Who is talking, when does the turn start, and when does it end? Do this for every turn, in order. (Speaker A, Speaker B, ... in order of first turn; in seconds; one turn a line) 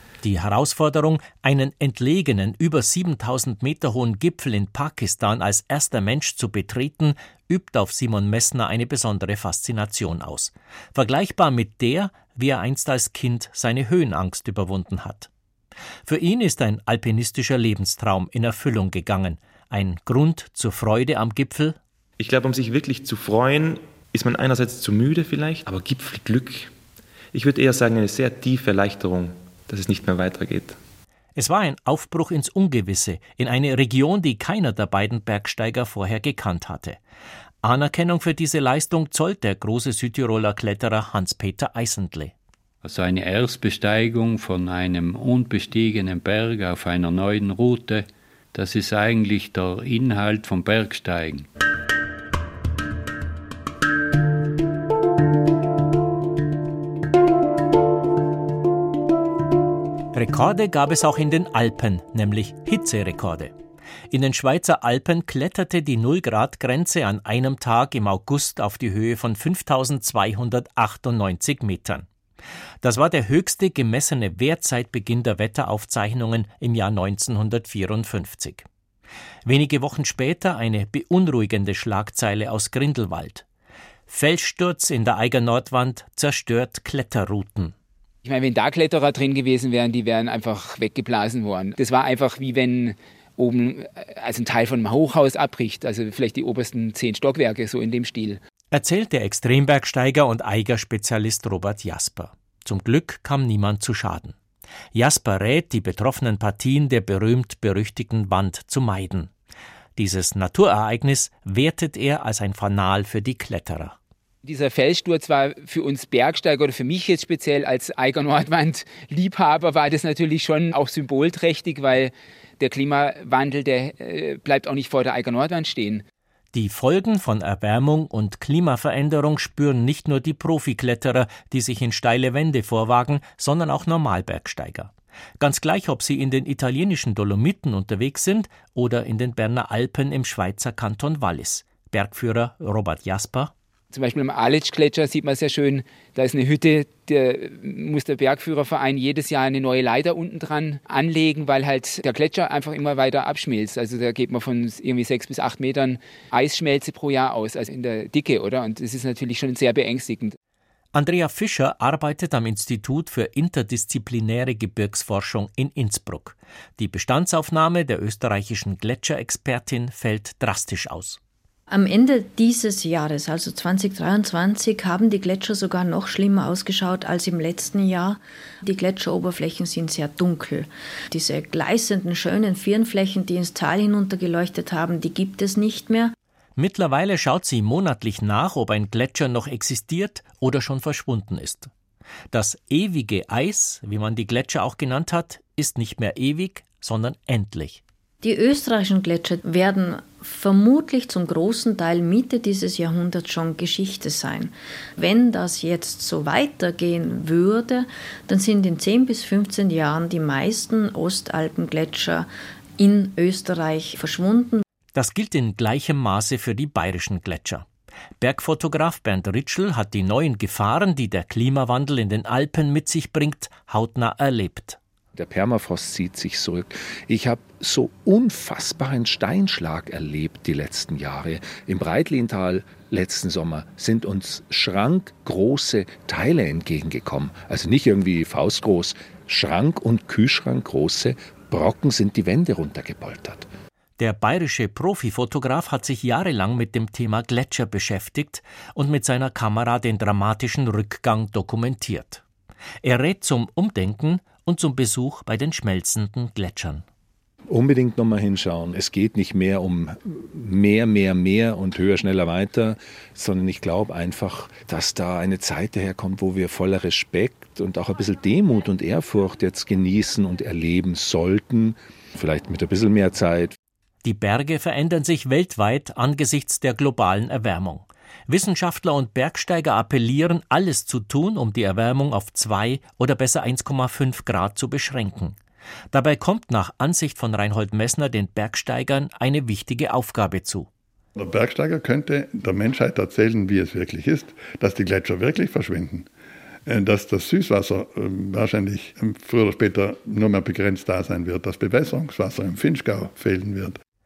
Speaker A: 0.2-15.3
Speaker A: 16.1-21.8
Speaker B: 22.2-26.7
Speaker B: 27.3-30.8
Speaker A: 31.4-37.0
Speaker A: 37.6-42.3
Speaker C: 42.8-51.5
Speaker A: 60.1-63.5
Speaker A: 64.1-72.1
Speaker A: 72.8-78.7
Speaker A: 79.5-83.5
Speaker A: 84.1-87.7
Speaker D: 88.2-98.4
Speaker A: 98.7-104.4
Speaker A: 104.9-109.3
Speaker A: 110.0-114.0
Speaker D: 114.4-126.0
Speaker A: 126.5-143.5
Speaker D: 143.9-160.4
Speaker A: 160.9-171.2
Speaker E: 171.7-186.1
Speaker A: 186.6-191.7
Speaker A: 192.3-197.8
Speaker E: 198.2-212.3
Speaker E: 212.8-214.6
Speaker A: 214.9-217.7
Speaker A: 218.2-224.8
Speaker F: 225.2-243.5
Speaker A: 244.0-252.2
Speaker A: 252.8-256.8
Speaker F: 257.5-273.6
Speaker A: 274.0-285.4
Speaker A: 285.9-290.7
Speaker G: 291.2-296.1
Speaker G: 296.7-303.8